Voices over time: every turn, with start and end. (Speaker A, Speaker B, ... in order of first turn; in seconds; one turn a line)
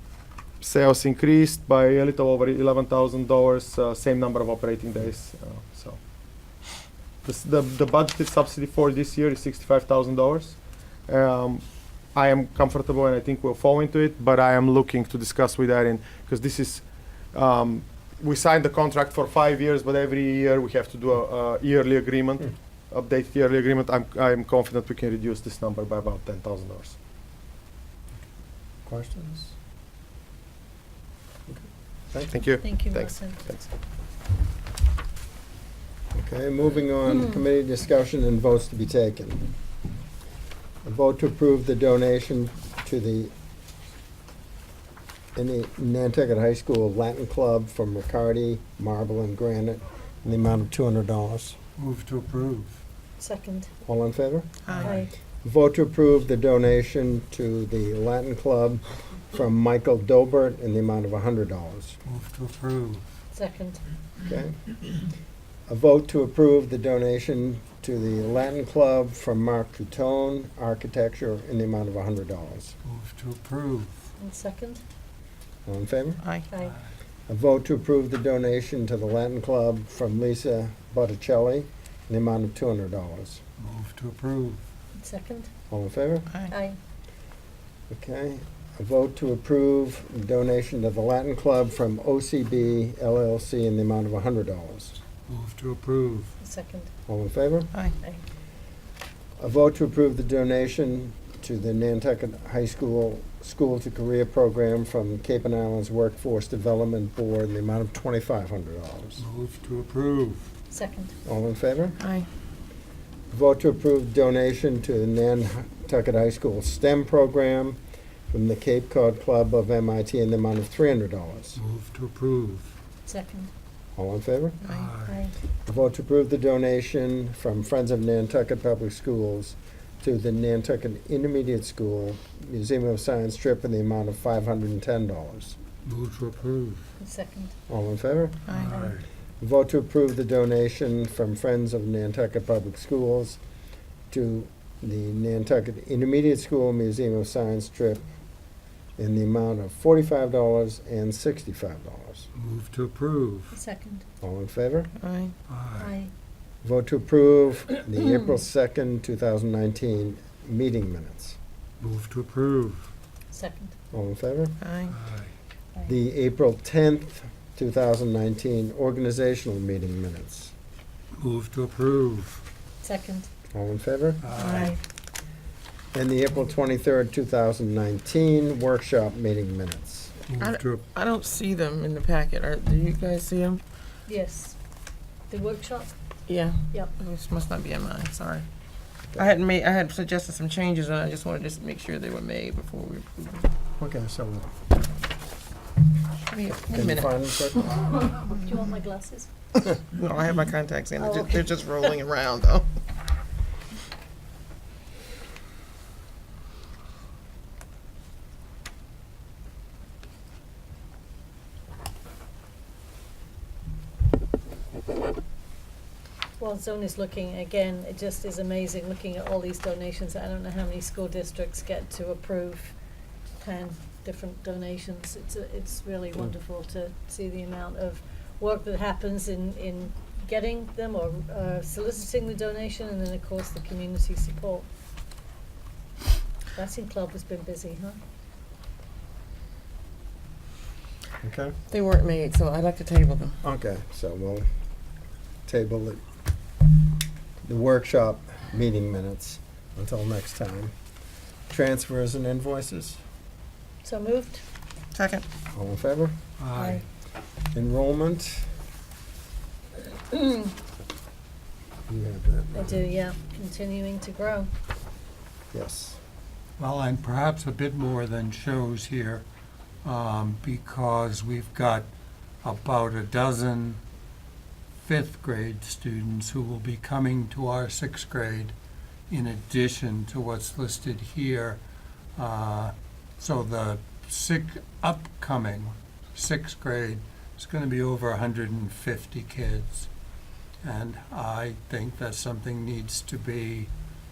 Speaker A: 0.6-6.0
Speaker A: 7.2-27.0
Speaker B: 28.9-29.5
Speaker B: 31.5-32.5
Speaker A: 32.3-33.6
Speaker C: 32.6-33.6
Speaker B: 36.1-39.5
Speaker B: 40.8-43.3
Speaker B: 45.3-51.6
Speaker D: 51.8-52.8
Speaker C: 53.2-53.7
Speaker B: 53.9-54.5
Speaker E: 54.6-54.9
Speaker C: 54.8-55.1
Speaker B: 55.4-62.0
Speaker D: 62.0-63.0
Speaker C: 63.3-63.8
Speaker B: 64.2-64.6
Speaker B: 65.7-72.7
Speaker D: 72.8-74.0
Speaker C: 74.2-74.8
Speaker B: 75.7-76.2
Speaker E: 76.2-76.5
Speaker C: 76.5-76.7
Speaker B: 77.3-83.4
Speaker D: 83.6-84.6
Speaker C: 84.9-85.5
Speaker B: 85.7-86.3
Speaker C: 86.5-86.8
Speaker B: 87.9-95.0
Speaker D: 95.3-96.3
Speaker C: 96.4-96.9
Speaker B: 97.1-97.7
Speaker B: 99.4-109.2
Speaker D: 109.2-110.5
Speaker C: 110.7-111.1
Speaker B: 111.2-112.0
Speaker E: 112.0-112.3
Speaker B: 113.3-117.8
Speaker B: 118.3-121.6
Speaker D: 121.6-122.7
Speaker C: 123.0-123.5
Speaker B: 124.0-124.6
Speaker E: 124.6-124.9
Speaker D: 124.7-125.2
Speaker C: 125.0-125.3
Speaker B: 125.7-135.6
Speaker D: 135.8-136.8
Speaker C: 137.0-137.5
Speaker B: 137.7-138.4
Speaker E: 138.5-138.7
Speaker D: 138.7-139.0
Speaker B: 139.4-143.4
Speaker B: 144.1-148.1
Speaker B: 149.0-152.3
Speaker D: 152.3-153.6
Speaker C: 153.5-154.0
Speaker B: 154.2-154.9
Speaker E: 155.0-155.3
Speaker D: 155.5-155.9
Speaker C: 155.8-156.1
Speaker B: 156.6-161.4
Speaker D: 161.8-162.9
Speaker C: 163.3-163.7
Speaker B: 163.9-164.6
Speaker E: 164.6-164.9
Speaker D: 164.9-165.3
Speaker B: 165.8-170.5
Speaker D: 171.2-172.4
Speaker C: 172.8-173.3
Speaker B: 173.5-174.2
Speaker D: 174.2-174.8
Speaker E: 174.3-174.8
Speaker B: 175.9-180.1
Speaker D: 180.3-180.8
Speaker E: 180.4-183.6
Speaker C: 184.1-184.6
Speaker C: 185.3-185.9
Speaker E: 186.3-188.4
Speaker E: 189.1-193.5
Speaker B: 193.8-194.6
Speaker E: 196.3-197.1
Speaker B: 196.7-197.7
Speaker C: 198.2-199.3
Speaker E: 199.8-202.7
Speaker C: 201.0-201.5
Speaker C: 216.4-222.7
Speaker C: 223.4-234.7
Speaker C: 236.5-238.0
Speaker B: 241.2-241.5
Speaker E: 241.7-243.4
Speaker B: 243.4-244.5
Speaker B: 245.4-246.0
Speaker B: 247.4-250.7
Speaker B: 251.5-253.0
Speaker C: 253.8-254.4
Speaker E: 254.9-255.2
Speaker B: 255.5-256.1
Speaker D: 256.4-256.8
Speaker C: 256.5-256.8
Speaker B: 257.5-258.5
Speaker B: 261.9-262.7
Speaker C: 262.5-264.5
Speaker B: 265.5-266.0
Speaker D: 266.6-269.2
Speaker D: 269.8-271.9
Speaker D: 272.4-273.8
Speaker D: 274.8-278.5
Speaker D: 279.1-281.6
Speaker D: 282.1-289.9
Speaker D: 290.6-293.7